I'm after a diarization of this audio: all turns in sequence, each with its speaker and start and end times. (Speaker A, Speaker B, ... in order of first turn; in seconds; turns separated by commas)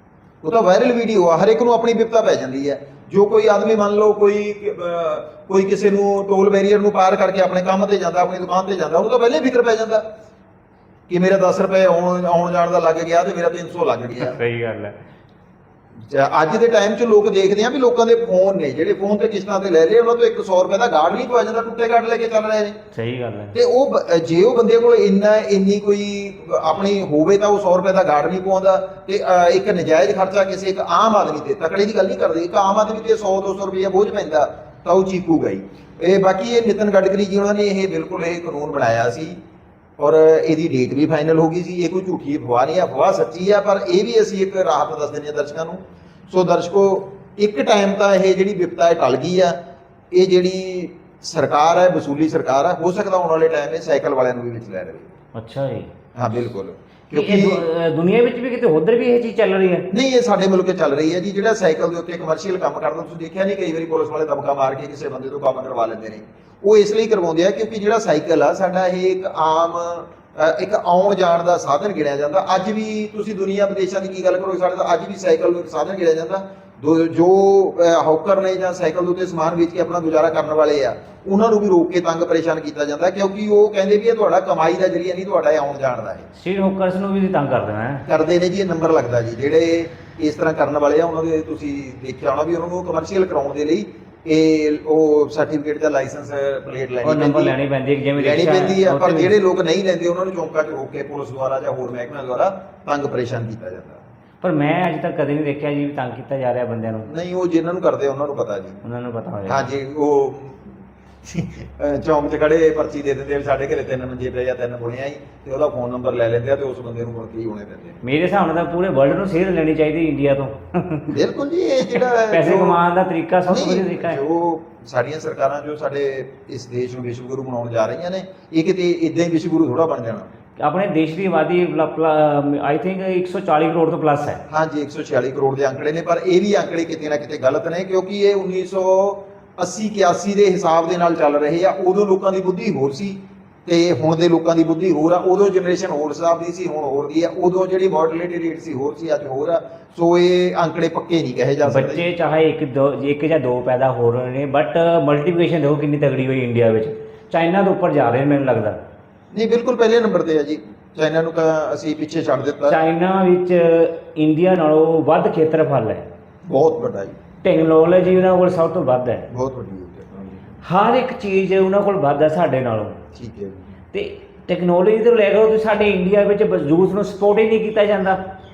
Speaker A: 0.4-10.1, Speaker A: 11.1-14.4, Speaker B: 14.2-14.9, Speaker A: 16.1-22.8, Speaker B: 22.9-23.6, Speaker A: 23.5-39.4, Speaker A: 40.0-49.6, Speaker A: 50.1-55.1, Speaker B: 55.3-55.9, Speaker A: 56.2-57.6, Speaker B: 57.1-59.9, Speaker A: 59.9-86.3, Speaker B: 86.3-88.1, Speaker A: 88.1-97.5, Speaker B: 97.0-99.3, Speaker A: 98.2-104.0, Speaker B: 104.4-107.1, Speaker A: 107.1-108.8, Speaker B: 108.8-109.7, Speaker A: 109.5-110.7, Speaker A: 111.2-118.0, Speaker B: 118.0-121.2, Speaker A: 121.1-122.8, Speaker B: 121.8-124.2, Speaker A: 123.5-130.3, Speaker B: 130.6-134.4, Speaker A: 134.5-152.0, Speaker B: 151.6-158.8, Speaker A: 159.3-162.8, Speaker B: 162.7-166.1, Speaker A: 166.4-167.2, Speaker B: 167.4-169.3, Speaker A: 169.3-170.4, Speaker B: 170.6-173.0, Speaker A: 173.1-173.6, Speaker B: 173.9-178.2